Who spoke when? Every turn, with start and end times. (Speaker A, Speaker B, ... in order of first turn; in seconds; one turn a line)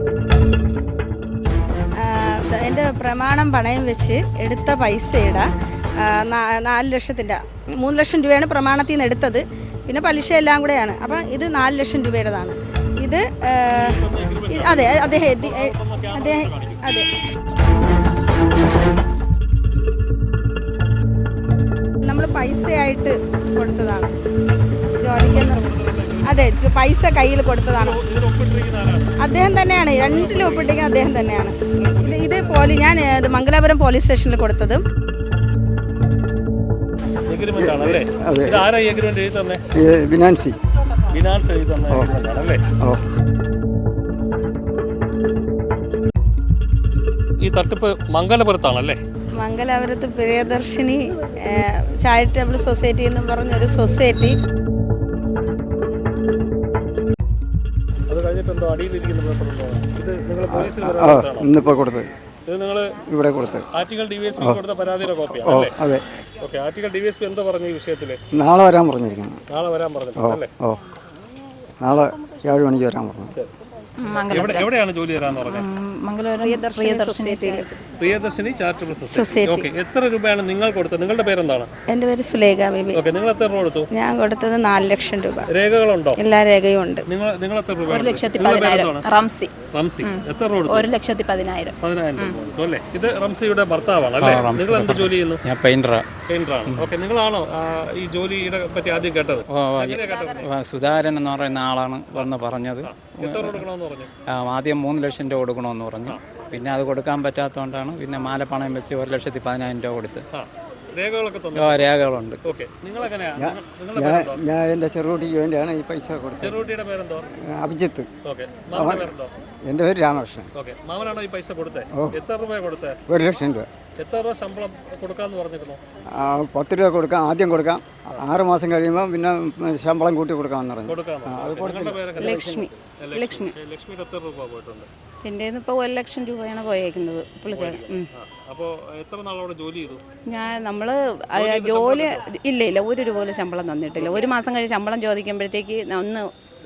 Speaker A: 2.0-5.5
Speaker A: 6.0-14.0
Speaker B: 13.7-16.9
Speaker A: 14.5-17.0
Speaker A: 22.0-24.1
Speaker A: 25.0-25.6
Speaker B: 25.2-26.5
Speaker A: 26.2-28.0
Speaker B: 27.7-29.1
Speaker A: 29.2-34.8
Speaker B: 29.9-30.8
Speaker B: 31.8-32.7
Speaker B: 37.3-39.6
Speaker C: 37.6-38.7
Speaker C: 39.7-40.6
Speaker B: 41.0-42.6
Speaker B: 47.4-49.0
Speaker A: 49.4-54.4
Speaker B: 58.1-61.5
Speaker C: 60.5-62.1
Speaker B: 62.5-63.0
Speaker C: 63.1-63.7
Speaker B: 63.7-65.7
Speaker C: 65.4-66.0
Speaker B: 66.4-68.2
Speaker C: 68.3-69.4
Speaker B: 69.5-70.5
Speaker C: 70.2-70.8
Speaker C: 71.8-73.3
Speaker D: 74.0-74.7
Speaker B: 74.2-75.7
Speaker D: 75.3-77.9
Speaker A: 76.4-77.7
Speaker B: 78.0-81.7
Speaker A: 78.8-79.7
Speaker A: 81.9-83.0
Speaker B: 82.9-83.9
Speaker A: 83.9-85.5
Speaker B: 85.5-86.2
Speaker A: 86.2-87.0
Speaker B: 87.1-89.1
Speaker D: 87.9-92.3
Speaker B: 89.7-90.9
Speaker B: 91.8-95.4
Speaker E: 94.2-96.0
Speaker B: 96.3-100.5
Speaker E: 99.5-103.6
Speaker B: 102.1-104.1
Speaker E: 104.3-110.2
Speaker B: 110.3-111.9
Speaker E: 111.5-112.4
Speaker B: 112.4-114.4
Speaker C: 113.4-116.6
Speaker B: 116.4-117.2
Speaker C: 117.3-118.1
Speaker B: 118.2-119.3
Speaker C: 118.7-119.1
Speaker C: 119.6-120.5
Speaker B: 120.5-123.0
Speaker C: 123.1-123.7
Speaker B: 124.0-125.8
Speaker C: 126.1-132.7
Speaker B: 130.9-134.9
Speaker D: 132.2-133.5
Speaker D: 135.2-138.1
Speaker B: 137.5-140.0
Speaker D: 140.3-146.3
Speaker B: 141.3-142.2
Speaker B: 143.9-144.3